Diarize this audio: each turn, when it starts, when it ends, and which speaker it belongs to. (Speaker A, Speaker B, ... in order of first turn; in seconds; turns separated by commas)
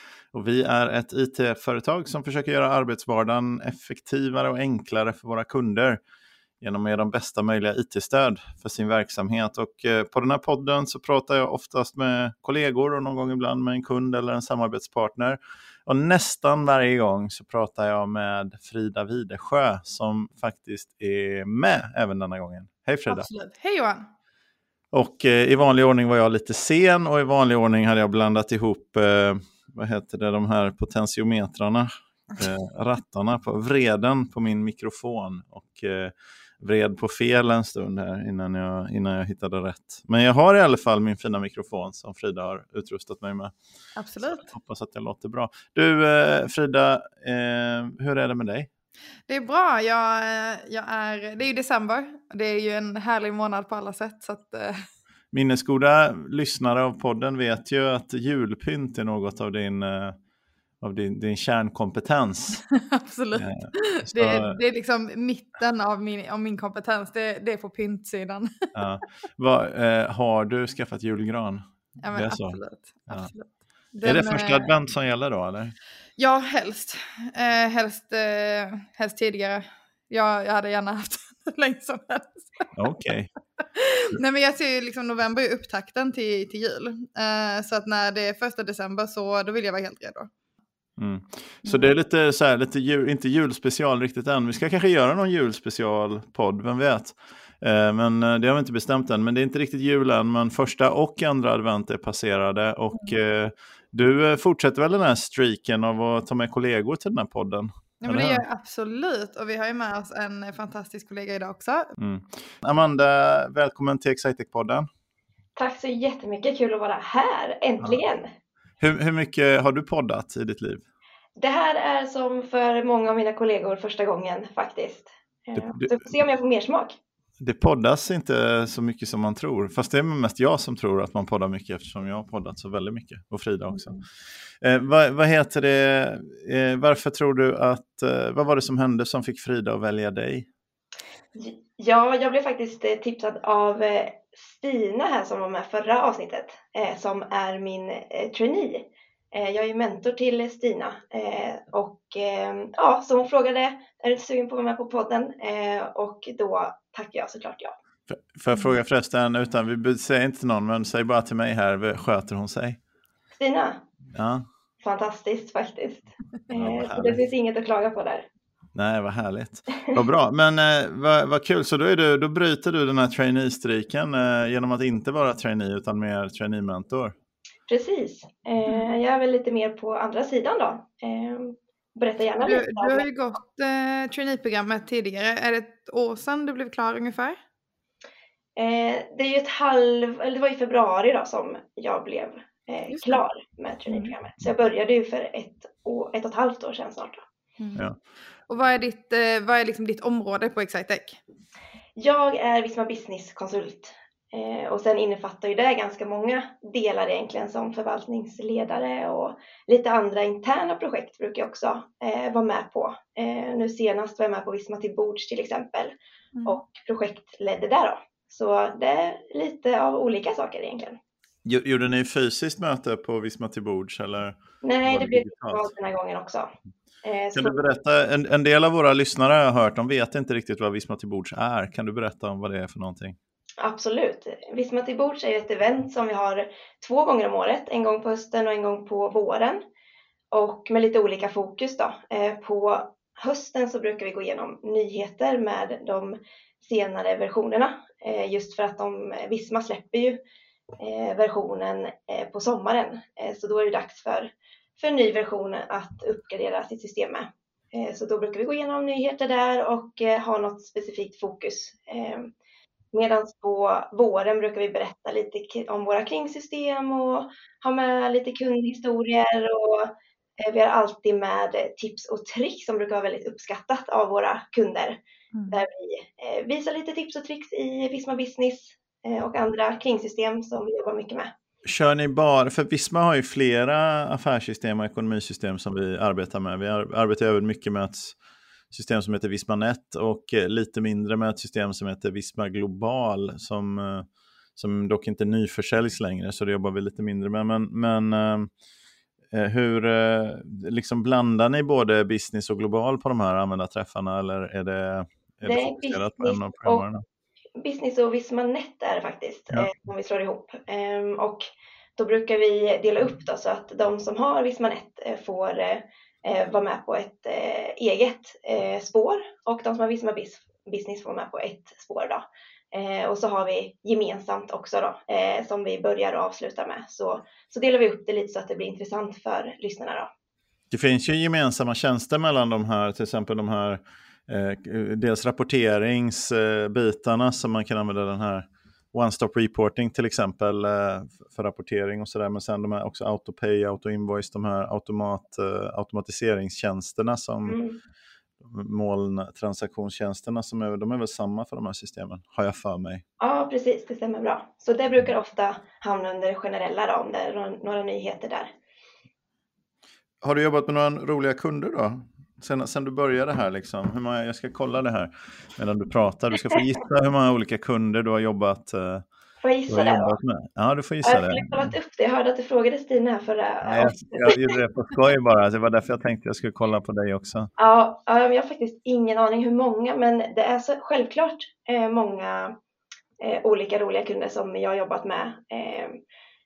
Speaker A: 0.3-6.0, Speaker A: 6.6-23.3, Speaker B: 23.1-24.1, Speaker A: 24.9-43.5, Speaker B: 44.0-44.5, Speaker A: 44.2-48.7, Speaker B: 49.3-54.8, Speaker A: 55.3-60.1, Speaker A: 60.8-62.6, Speaker B: 62.7-68.5, Speaker A: 63.3-64.6, Speaker A: 68.7-73.3, Speaker B: 72.0-74.7, Speaker A: 74.0-75.8, Speaker B: 76.2-82.7, Speaker A: 82.8-83.3, Speaker B: 83.8-90.3, Speaker A: 91.0-108.4, Speaker B: 91.6-91.9, Speaker B: 108.0-111.9, Speaker A: 112.0-114.9, Speaker C: 115.6-118.3, Speaker A: 118.8-120.8, Speaker C: 121.4-127.0, Speaker A: 125.5-126.1, Speaker A: 127.4-134.0, Speaker B: 133.7-134.0, Speaker A: 134.6-140.5, Speaker C: 141.3-157.7, Speaker A: 158.1-162.8, Speaker C: 163.4-163.8, Speaker A: 164.1-164.4, Speaker C: 164.8-168.3, Speaker A: 166.5-167.2, Speaker A: 168.7-177.1, Speaker C: 177.7-183.1, Speaker B: 182.4-187.4, Speaker C: 188.6-197.2, Speaker B: 192.9-193.2, Speaker B: 193.9-194.1, Speaker B: 197.6-197.8, Speaker B: 198.5-201.2, Speaker C: 202.0-215.9, Speaker B: 216.3-216.6, Speaker C: 216.4-221.0, Speaker A: 221.4-225.7, Speaker C: 224.6-226.5, Speaker C: 227.0-227.6, Speaker A: 227.3-233.2, Speaker C: 233.6-239.6, Speaker C: 240.3-250.2, Speaker C: 250.8-262.3, Speaker C: 262.9-275.0, Speaker B: 275.3-275.6, Speaker C: 275.5-281.3, Speaker A: 281.6-288.1, Speaker A: 288.7-298.5, Speaker A: 299.3-307.0, Speaker C: 305.4-306.9, Speaker C: 307.6-330.1, Speaker A: 330.7-347.6, Speaker C: 347.5-347.8, Speaker A: 348.4-353.0, Speaker C: 353.2-358.5, Speaker A: 360.2-369.0, Speaker C: 369.4-370.1, Speaker A: 369.7-371.7, Speaker C: 371.0-374.6, Speaker A: 373.6-377.5, Speaker C: 377.6-382.5, Speaker C: 383.2-386.0